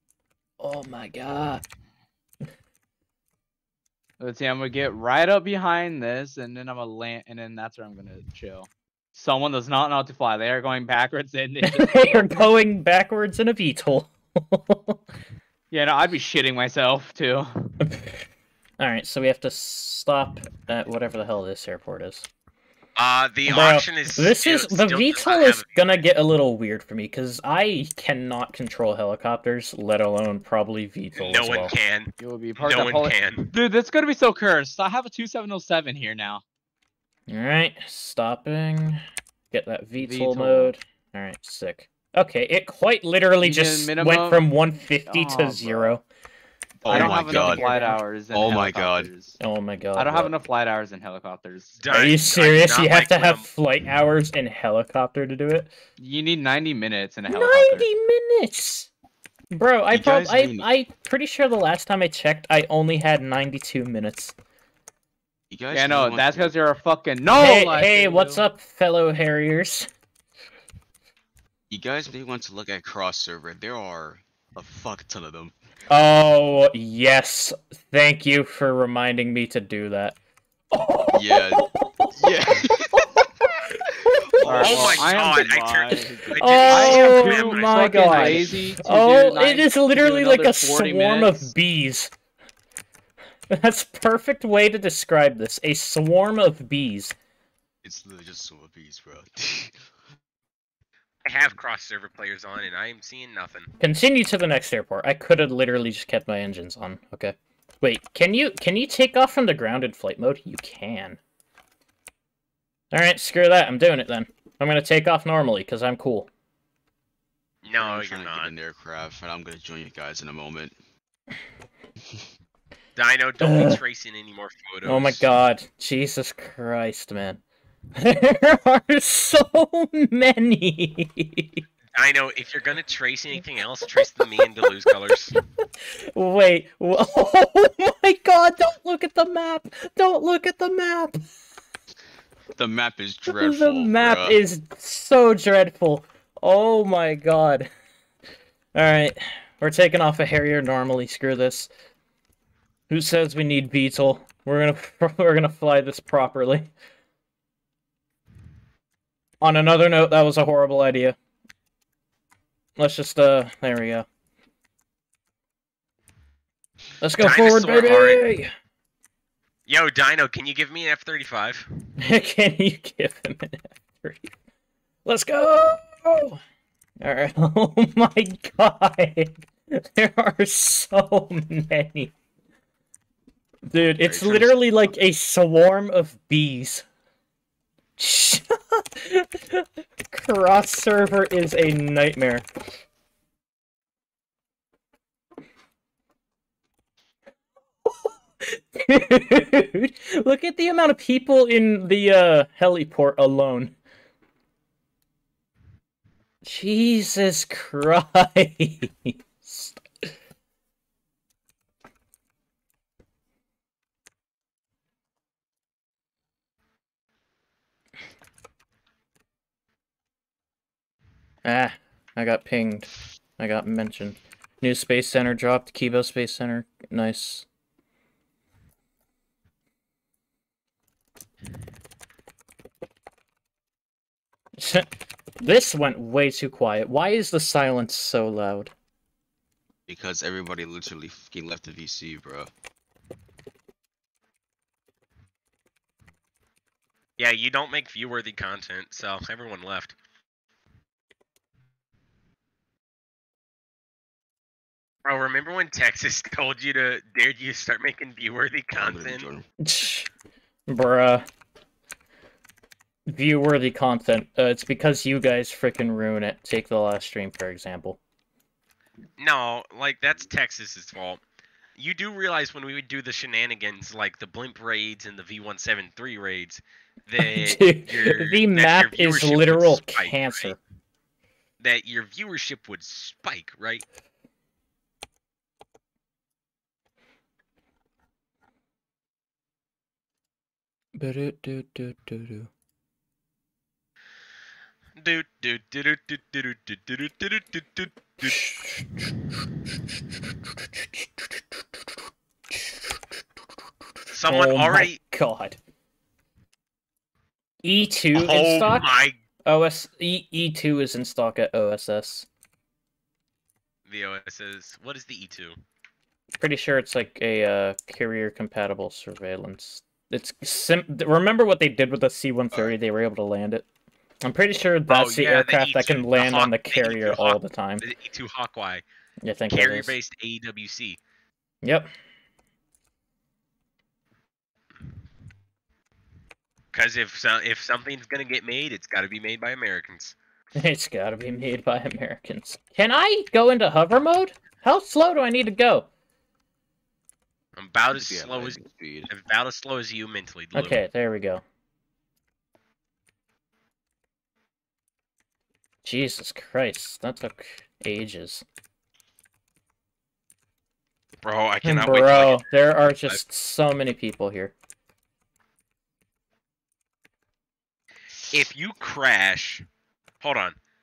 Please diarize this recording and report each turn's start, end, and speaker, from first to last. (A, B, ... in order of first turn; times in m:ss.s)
0:00.6-0:01.6 A
0:04.2-0:12.5 B
0:11.6-0:15.0 A
0:15.7-0:17.8 B
0:17.8-0:18.3 A
0:18.8-0:22.3 A
0:23.0-0:26.0 C
0:23.5-0:31.7 A
0:31.2-0:33.6 C
0:32.2-0:36.4 B
0:37.3-0:39.0 A
0:39.5-0:46.0 A
0:40.0-0:40.7 B
0:43.4-0:44.5 B
0:45.1-0:46.0 B
0:46.8-0:47.7 D
0:46.8-0:49.4 B
0:46.9-0:48.0 A
0:48.3-0:49.1 D
0:49.4-0:50.3 A
0:50.0-0:51.9 B
0:51.8-0:53.5 C
0:51.9-0:55.7 A
0:56.0-0:57.9 B
0:57.3-0:58.9 A
0:59.5-1:04.4 A
0:59.9-1:00.7 D
1:05.5-1:06.6 D
1:05.7-1:08.4 B
1:07.3-1:09.9 A
1:11.7-1:15.6 D
1:15.9-1:20.2 A
1:20.7-1:24.8 A
1:21.1-1:23.3 D
1:23.9-1:25.1 D
1:24.4-1:31.5 B
1:24.6-1:28.5 C
1:26.4-1:32.1 A
1:33.5-1:37.2 A
1:37.8-1:39.8 D
1:41.2-1:43.7 C
1:43.8-1:51.2 A
1:52.9-1:56.3 A
1:57.6-1:58.5 C
1:57.7-2:00.8 D
2:03.0-2:05.2 C
2:03.4-2:03.8 A
2:04.8-2:07.4 A
2:08.0-2:11.6 A
2:12.0-2:15.4 C
2:14.7-2:21.2 A
2:22.6-2:24.4 D
2:23.3-2:27.7 A
2:28.8-2:31.7 A
2:32.9-2:36.7 A
2:39.4-2:41.2 A
2:42.8-2:44.1 A
2:47.0-2:48.5 A
2:47.2-2:48.2 C
2:49.7-2:51.7 C
2:52.0-2:54.3 A
2:55.0-2:56.4 A
2:57.0-3:02.1 A
3:03.7-3:06.9 A
3:04.0-3:04.6 D
3:08.0-3:12.5 A
3:17.8-3:23.8 A
3:26.4-3:30.1 A
3:41.4-3:47.5 A
3:54.6-3:54.9 A
3:55.4-3:58.7 A
3:59.9-4:02.5 D
4:07.2-4:09.9 C
4:15.0-4:19.3 C
4:18.8-4:19.5 D
4:19.6-4:20.1 A
4:20.7-4:21.2 A
4:23.1-4:28.0 A
4:29.2-4:31.2 C
4:31.8-4:40.5 C
4:37.2-4:40.6 A
4:41.6-4:43.8 C
4:51.0-4:52.5 A
4:55.0-4:58.4 C
4:58.2-4:59.1 A
5:00.5-5:01.9 A
5:02.5-5:03.0 A
5:04.1-5:05.0 C
5:04.2-5:05.6 A
5:07.6-5:08.8 A
5:08.2-5:09.1 C
5:09.5-5:12.3 A
5:13.9-5:15.6 C
5:16.4-5:23.7 A
5:24.2-5:27.9 A
5:24.9-5:28.8 C
5:29.2-5:30.0 A
5:29.5-5:31.0 C
5:31.6-5:31.9 A
5:36.7-5:40.2 C
5:40.6-5:45.9 A
5:47.6-5:50.8 C
5:47.9-5:49.1 D
5:50.6-5:51.4 A
5:55.8-5:58.4 A
6:01.2-6:02.5 C
6:01.6-6:04.5 A
6:08.3-6:09.6 C
6:10.2-6:10.6 C